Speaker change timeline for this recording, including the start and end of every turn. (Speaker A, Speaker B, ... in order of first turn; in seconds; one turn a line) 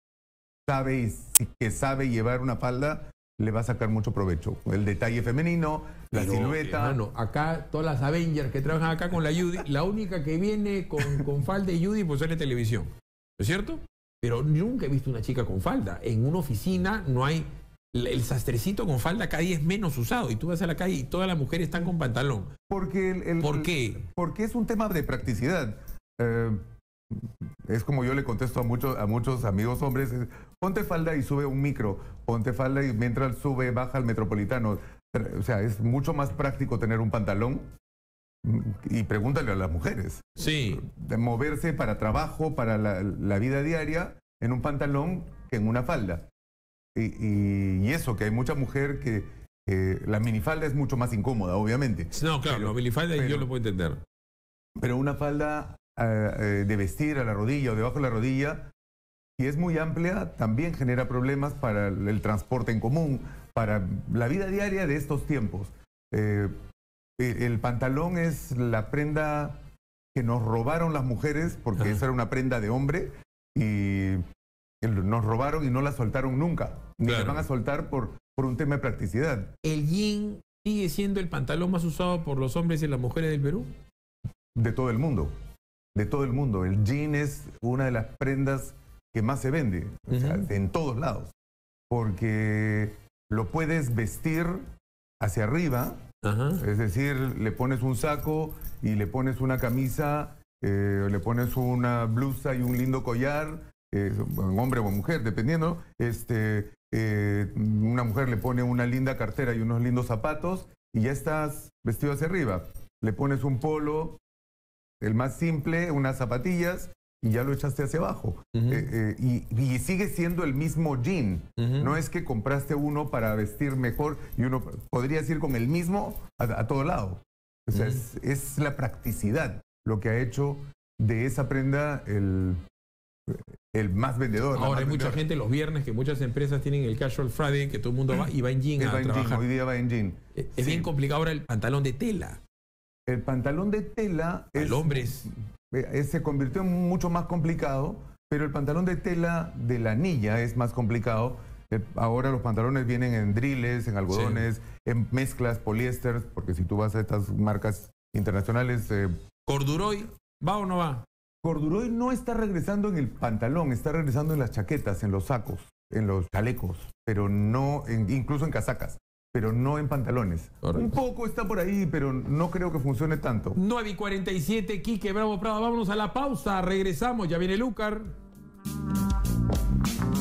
Speaker A: 0.7-7.0
Speaker B: 6.1-22.5
Speaker A: 22.7-37.7
Speaker B: 23.4-24.1
Speaker A: 38.4-46.3
Speaker B: 40.4-40.9
Speaker A: 47.0-53.5
Speaker B: 52.1-54.0
Speaker A: 54.8-58.7
Speaker A: 59.4-66.6
Speaker A: 67.2-69.6
Speaker A: 70.1-74.2
Speaker B: 71.8-72.0
Speaker A: 74.8-79.5
Speaker B: 77.0-77.5
Speaker B: 79.6-83.7
Speaker A: 84.5-85.3
Speaker A: 86.0-91.3
Speaker B: 90.1-90.5
Speaker A: 91.9-94.7
Speaker A: 95.2-96.0
Speaker B: 96.2-96.6
Speaker A: 96.6-114.2
Speaker A: 115.0-132.6
Speaker B: 118.5-118.9
Speaker B: 121.6-122.0
Speaker B: 127.7-128.0
Speaker A: 133.3-135.2
Speaker B: 134.5-139.4
Speaker A: 138.8-140.9
Speaker B: 140.4-142.4
Speaker A: 143.1-159.2
Speaker B: 144.6-145.3
Speaker B: 154.1-154.5
Speaker B: 159.5-161.1
Speaker A: 161.4-173.6
Speaker B: 170.6-170.9
Speaker B: 173.6-178.2